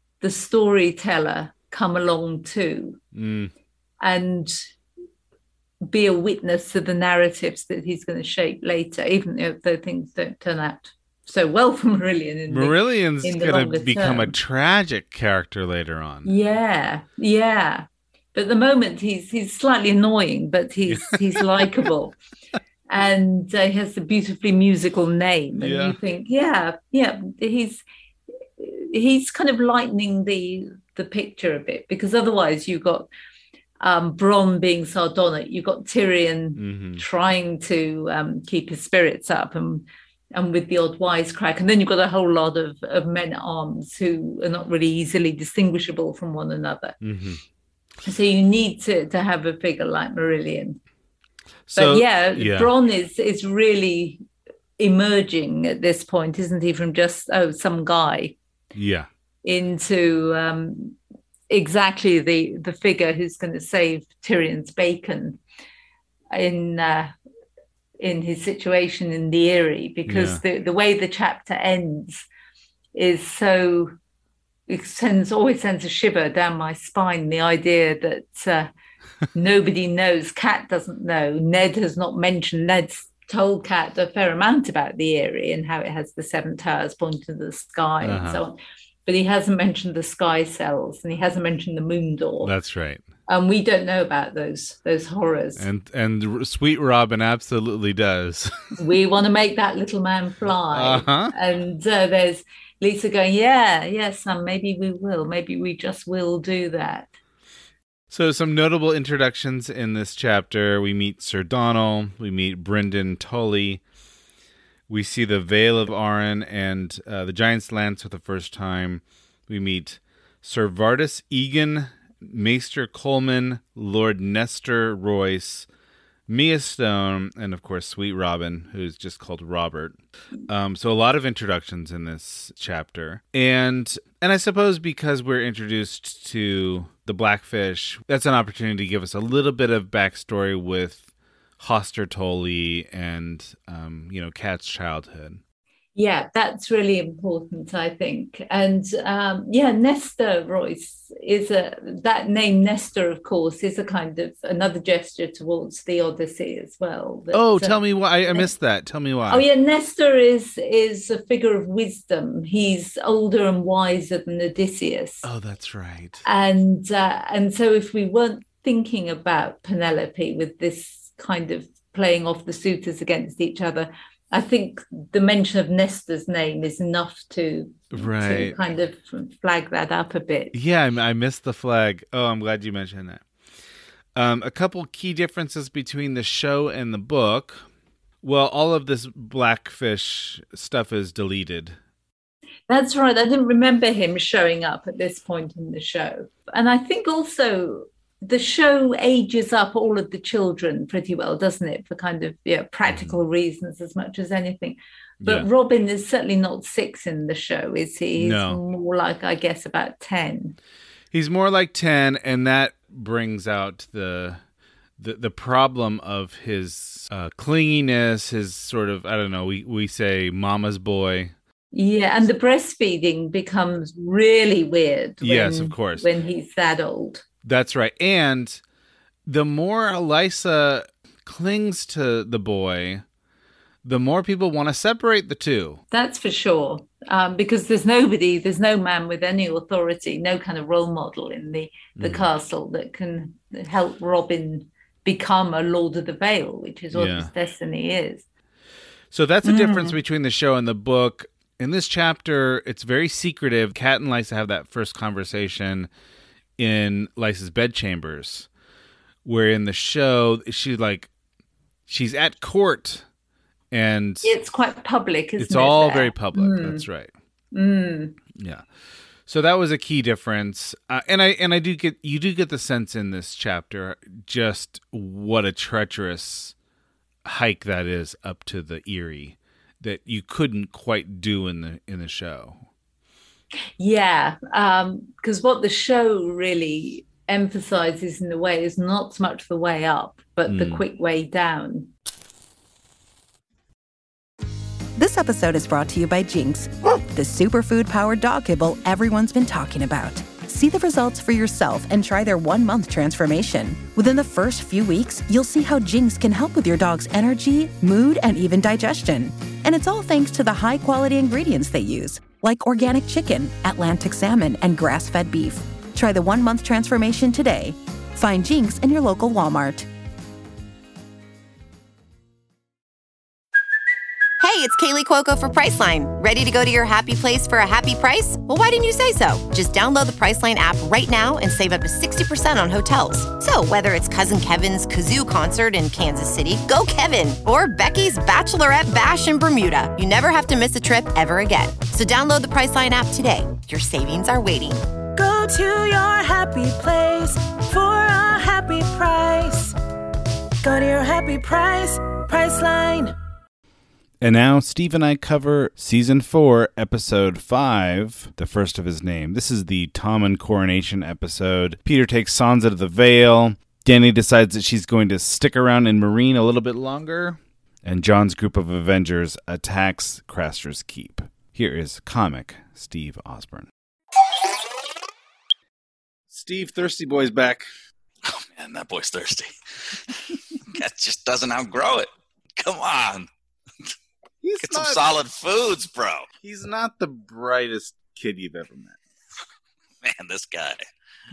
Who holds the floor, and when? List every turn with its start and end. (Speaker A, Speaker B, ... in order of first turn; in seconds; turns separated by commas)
Speaker A: 0.2-3.0, Speaker B: 3.1-3.5, Speaker A: 4.0-4.6, Speaker A: 5.8-14.3, Speaker B: 12.5-16.3, Speaker A: 16.2-22.2, Speaker B: 20.9-21.7, Speaker A: 22.9-27.8, Speaker B: 25.6-26.0, Speaker A: 28.6-33.1, Speaker A: 33.8-47.0, Speaker B: 36.6-37.0, Speaker B: 47.0-47.4, Speaker A: 48.0-50.8, Speaker B: 51.7-52.7, Speaker A: 51.8-54.2, Speaker A: 54.8-58.4, Speaker B: 58.7-59.1, Speaker A: 59.4-61.0, Speaker A: 61.5-65.4, Speaker A: 66.3-67.1, Speaker A: 68.0-72.2, Speaker B: 70.1-70.4, Speaker A: 72.9-73.9, Speaker A: 74.7-78.7, Speaker A: 79.3-92.5, Speaker B: 88.0-88.4, Speaker B: 92.4-93.0, Speaker A: 93.3-95.7, Speaker B: 95.6-98.8, Speaker A: 98.8-107.1, Speaker B: 100.7-101.3, Speaker B: 108.1-113.8, Speaker B: 114.9-125.7, Speaker B: 126.3-141.0, Speaker B: 141.6-145.4, Speaker A: 145.9-158.5, Speaker B: 157.3-159.4, Speaker A: 159.3-165.2, Speaker B: 165.2-166.2, Speaker A: 166.2-180.5, Speaker B: 177.9-178.6, Speaker B: 180.5-183.2, Speaker B: 184.1-187.7, Speaker B: 188.2-191.8, Speaker A: 192.7-210.6, Speaker B: 202.8-203.1, Speaker B: 205.2-205.5, Speaker B: 208.2-208.6, Speaker B: 211.1-214.4, Speaker B: 215.0-221.3, Speaker A: 221.7-227.2, Speaker B: 225.2-226.1, Speaker B: 227.4-228.6, Speaker B: 229.2-233.0, Speaker B: 233.8-235.8, Speaker A: 235.9-248.2, Speaker B: 241.9-242.3, Speaker B: 246.9-247.3, Speaker B: 249.1-255.9, Speaker A: 249.4-250.0, Speaker B: 256.6-258.5, Speaker B: 259.2-261.1, Speaker B: 261.9-263.0, Speaker B: 263.7-264.3, Speaker A: 264.2-266.8, Speaker B: 265.4-267.1, Speaker A: 267.5-268.2, Speaker B: 268.3-268.6, Speaker B: 269.2-276.5, Speaker B: 277.2-282.6, Speaker A: 283.8-291.9, Speaker B: 290.5-290.8, Speaker C: 294.9-319.9, Speaker D: 324.4-344.8, Speaker E: 345.1-349.7, Speaker E: 350.6-353.1, Speaker B: 354.2-373.7, Speaker B: 376.3-377.7, Speaker F: 378.2-383.3, Speaker B: 384.4-385.1, Speaker F: 384.6-386.3, Speaker B: 386.4-389.0, Speaker F: 390.0-390.8